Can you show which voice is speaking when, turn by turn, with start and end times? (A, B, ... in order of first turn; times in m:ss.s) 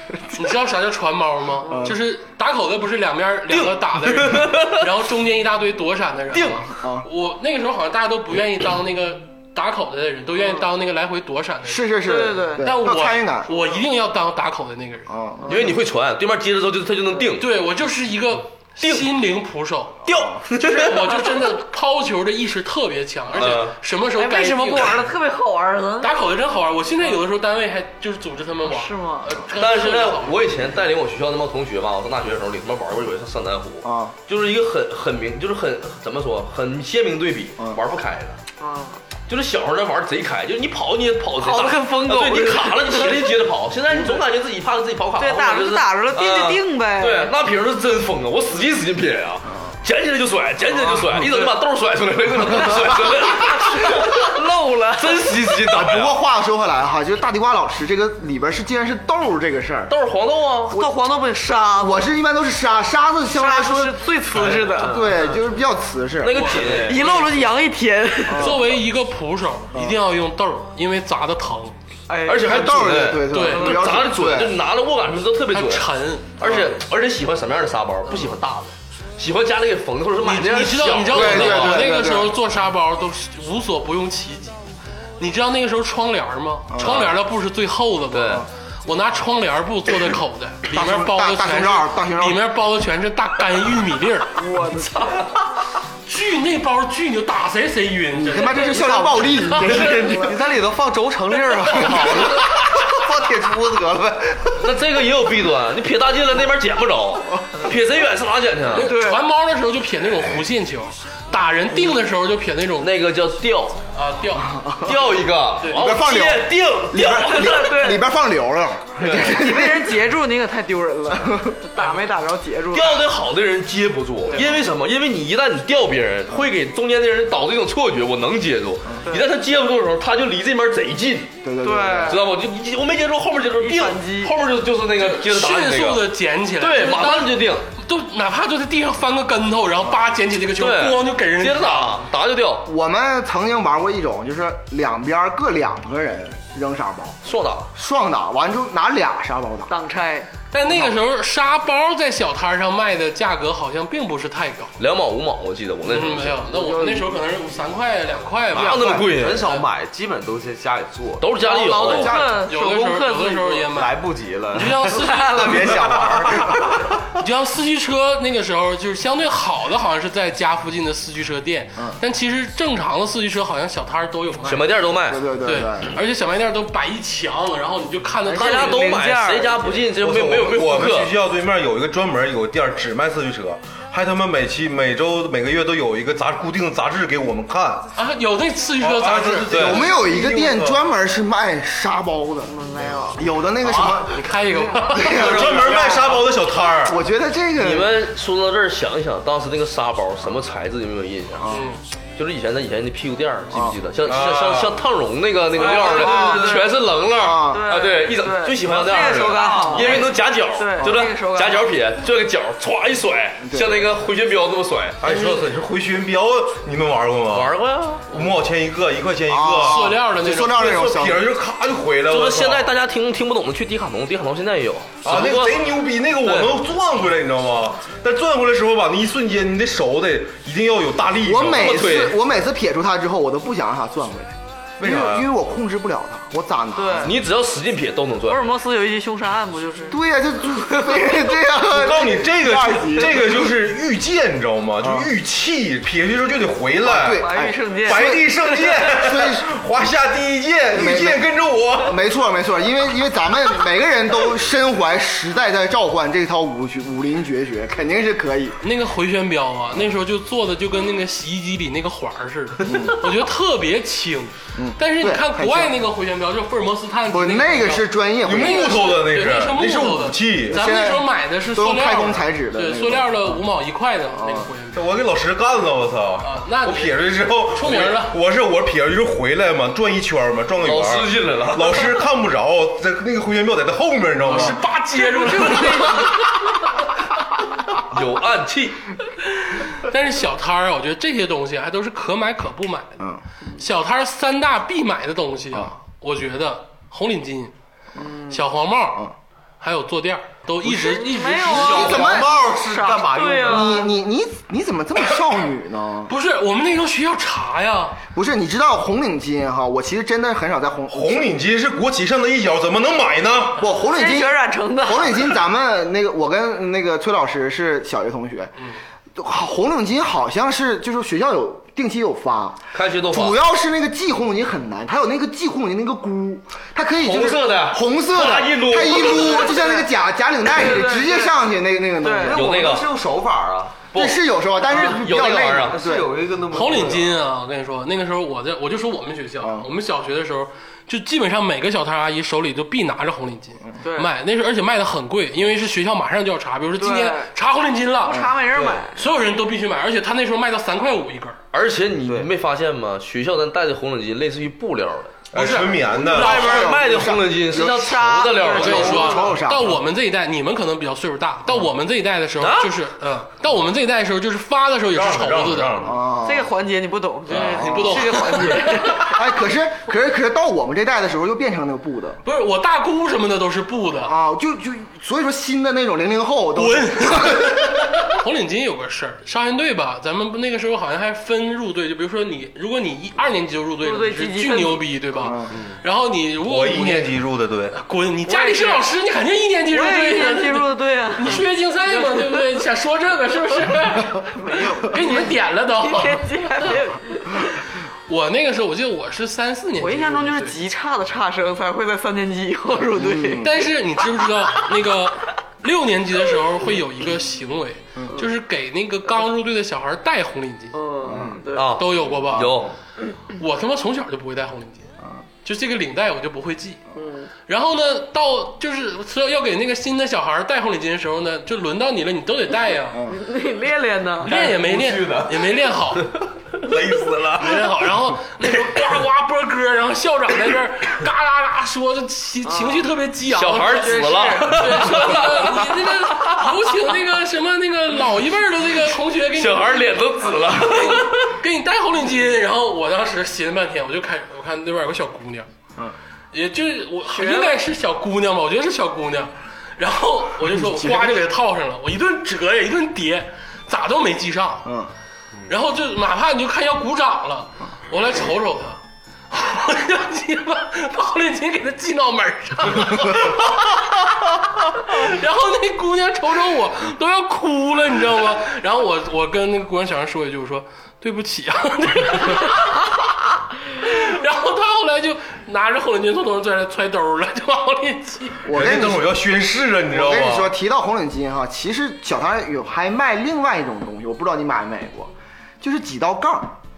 0:00.4-0:11.9 A
0:01.7-0:02.0 B
0:03.5-0:04.8 C
0:06.3-0:06.6 C
0:06.7-0:07.1 B
0:11.6-0:13.5 B
0:12.0-0:12.6 D
0:12.6-0:15.1 A
0:15.1-0:15.7 B
0:15.5-0:17.5 C
0:17.4-0:20.0 A
0:18.8-0:19.1 C
0:20.0-0:20.4 B
0:20.0-0:20.9 C
0:20.5-0:25.0 A
0:23.4-0:23.8 C
0:24.2-0:26.1 D
0:26.0-0:30.7 A
0:28.6-0:29.3 D
0:29.6-0:38.4 C
0:33.8-0:34.2 B
0:38.6-0:39.0 D
0:39.3-0:54.4 C
0:41.4-0:43.4 D
0:45.2-0:47.3 D
0:51.1-0:51.5 D
0:53.3-0:55.6 D
0:54.9-0:56.2 C
0:55.7-0:59.9 B
0:59.9-1:00.9 C
1:00.7-1:02.1 D
1:01.8-1:06.7 B
1:03.3-1:05.2 D
1:04.3-1:05.4 C
1:06.2-1:07.2 C
1:06.3-1:07.4 A
1:06.8-1:08.7 D
1:08.3-1:08.7 B
1:08.3-1:11.8 A
1:09.7-1:10.0 B
1:12.1-1:14.0 D
1:12.2-1:15.9 C
1:12.4-1:14.6 B
1:13.3-1:13.8 A
1:15.5-1:16.6 A
1:16.4-1:22.0 C
1:20.2-1:24.6 A
1:21.1-1:22.4 B
1:25.2-1:34.3 A
1:26.7-1:27.1 B
1:26.8-1:27.1 C
1:28.1-1:28.4 C
1:30.7-1:32.5 B
1:34.4-1:35.1 D
1:36.1-1:38.8 A
1:38.2-1:40.4 B
1:38.4-1:38.9 D
1:38.8-1:44.6 E
1:39.5-1:39.9 A
1:44.6-1:48.9 C
1:48.7-1:52.9 A
1:48.8-1:49.2 D
1:52.8-1:53.8 C
1:53.9-1:54.6 A
1:54.4-1:55.1 B
1:54.8-1:58.0 C
1:55.7-2:00.0 B
1:57.4-1:58.0 D
1:59.0-1:59.4 C
1:59.2-2:03.1 D
2:01.2-2:01.6 B
2:01.8-2:02.0 A
2:02.7-2:11.3 C
2:04.3-2:04.6 D
2:09.1-2:09.3 D
2:11.4-2:12.2 B
2:11.6-2:12.2 D
2:12.1-2:17.7 C
2:13.6-2:14.3 D
2:15.0-2:22.0 A
2:20.6-2:22.7 C
2:22.7-2:27.2 B
2:27.2-2:27.7 C
2:27.8-2:29.7 B
2:29.7-2:30.3 D
2:30.5-2:34.7 A
2:30.7-2:31.0 B
2:34.8-2:36.4 C
2:35.9-2:38.9 A
2:36.5-2:37.1 E
2:38.5-2:39.5 C
2:38.6-2:39.2 B
2:38.8-2:42.5 E
2:41.2-2:42.2 C
2:41.4-2:43.7 D
2:42.5-2:44.0 A
2:43.7-2:46.6 E
2:44.5-2:45.7 A
2:45.0-2:45.7 D
2:47.2-2:54.7 A
2:54.5-2:55.3 C
2:55.1-2:56.0 B
2:55.4-2:59.0 A
2:58.3-2:59.8 D
2:58.3-3:01.1 C
3:00.0-3:07.9 F
3:08.0-3:09.9 A
3:08.8-3:10.8 F
3:09.5-3:09.8 C
3:09.6-3:12.6 B
3:12.5-3:13.2 D
3:13.1-3:16.0 B
3:14.1-3:15.4 A
3:14.6-3:15.2 D
3:15.1-3:17.0 F
3:16.8-3:18.0 B
3:17.6-3:21.5 C
3:21.4-3:21.7 B
3:21.5-3:21.8 A
3:22.2-3:35.0 C
3:23.5-3:23.8 B
3:24.0-3:24.8 F
3:25.6-3:26.8 D
3:25.8-3:27.7 B
3:27.4-3:31.7 D
3:29.3-3:30.0 A
3:30.8-3:31.1 B
3:33.4-3:33.9 B
3:35.0-3:37.6 F
3:37.3-3:38.1 C
3:38.1-3:40.0 F
3:39.3-3:41.3 B
3:39.6-3:40.9 A
3:40.5-3:42.7 F
3:42.1-3:46.6 C
3:45.0-3:51.7 F
3:51.2-3:57.2 B
3:51.6-3:52.2 C
3:54.8-3:55.3 F
3:56.7-3:57.2 D
3:57.0-3:58.5 C
3:58.3-4:00.0 D
3:59.9-4:03.4 B
4:00.6-4:01.3 D
4:01.7-4:07.3 F
4:04.8-4:05.1 B
4:06.8-4:09.5 B
4:07.2-4:08.9 D
4:07.8-4:12.0 F
4:10.7-4:11.2 B
4:11.8-4:18.6 B
4:18.6-4:34.8 A
4:22.6-4:23.0 B
4:24.6-4:25.8 B
4:27.1-4:29.0 B
4:28.2-4:30.6 F
4:30.5-4:33.4 B
4:34.1-4:34.5 B
4:34.7-4:44.6 F
4:36.2-4:38.2 A
4:40.6-4:41.9 C
4:44.3-4:46.4 A
4:45.2-4:46.2 D
4:47.9-4:48.8 C
4:49.5-4:53.0 A
4:53.6-4:57.5 A
4:58.0-4:58.4 D
4:58.3-4:59.1 A
4:59.6-5:02.0 A
5:00.6-5:03.9 D
5:01.4-5:02.4 B
5:01.5-5:03.8 E
5:03.4-5:06.1 B
5:06.1-5:08.0 A
5:08.1-5:11.3 B
5:10.9-5:13.6 F
5:13.6-5:18.5 B
5:13.8-5:15.4 D
5:19.2-5:32.4 B
5:22.7-5:23.4 C
5:27.0-5:29.6 C
5:28.8-5:29.9 D
5:30.5-5:31.4 D
5:32.0-5:32.5 D
5:32.2-5:33.9 E
5:32.3-5:32.9 C
5:33.8-5:35.8 C
5:34.0-5:36.1 B
5:34.7-5:37.2 E
5:36.5-5:48.3 A
5:39.4-5:39.7 B
5:43.8-5:44.1 D
5:46.8-5:47.3 D
5:48.0-5:49.0 D
5:49.0-5:51.4 A
5:51.5-5:55.2 C
5:52.0-5:52.3 E
5:55.3-5:56.6 F
5:55.3-5:56.7 A
5:56.0-5:59.8 B
5:56.1-5:59.3 C
5:57.5-5:59.3 D
5:58.6-6:05.8 A
6:02.4-6:02.7 C
6:04.9-6:06.0 F
6:05.8-6:06.5 B
6:06.2-6:09.2 D
6:07.3-6:08.9 A
6:07.3-6:12.2 B
6:12.2-6:14.1 A
6:14.0-6:17.7 B
6:16.6-6:27.2 A
6:23.8-6:24.8 D
6:25.2-6:25.6 B
6:26.4-6:27.8 F
6:27.7-6:36.8 A
6:28.3-6:28.8 D
6:29.7-6:32.4 D
6:34.4-6:37.5 D
6:38.1-6:40.6 A
6:39.8-6:43.5 D
6:42.9-6:43.6 B
6:43.4-6:50.8 A
6:50.7-6:51.8 D
6:51.0-6:51.4 B
6:51.5-6:52.7 C
6:51.8-6:52.6 A
6:53.4-6:54.9 A
6:55.4-6:56.8 A
6:57.0-6:57.3 D
6:57.5-7:03.0 A
7:02.9-7:03.2 B
7:03.1-7:04.6 D
7:04.2-7:06.1 A
7:04.3-7:05.4 F
7:06.6-7:08.0 F
7:07.4-7:19.8 A
7:12.4-7:12.9 D
7:13.3-7:16.4 C
7:13.6-7:15.4 D
7:19.3-7:21.3 C
7:20.5-7:25.5 A
7:26.3-7:34.7 A
7:27.1-7:27.6 D
7:30.4-7:31.3 B
7:34.6-7:34.9 B
7:35.5-7:38.8 A
7:39.3-7:43.8 A
7:44.8-7:52.8 A
7:53.8-7:58.8 A
7:58.5-7:59.1 B
7:58.5-8:00.5 F
7:59.9-8:06.6 B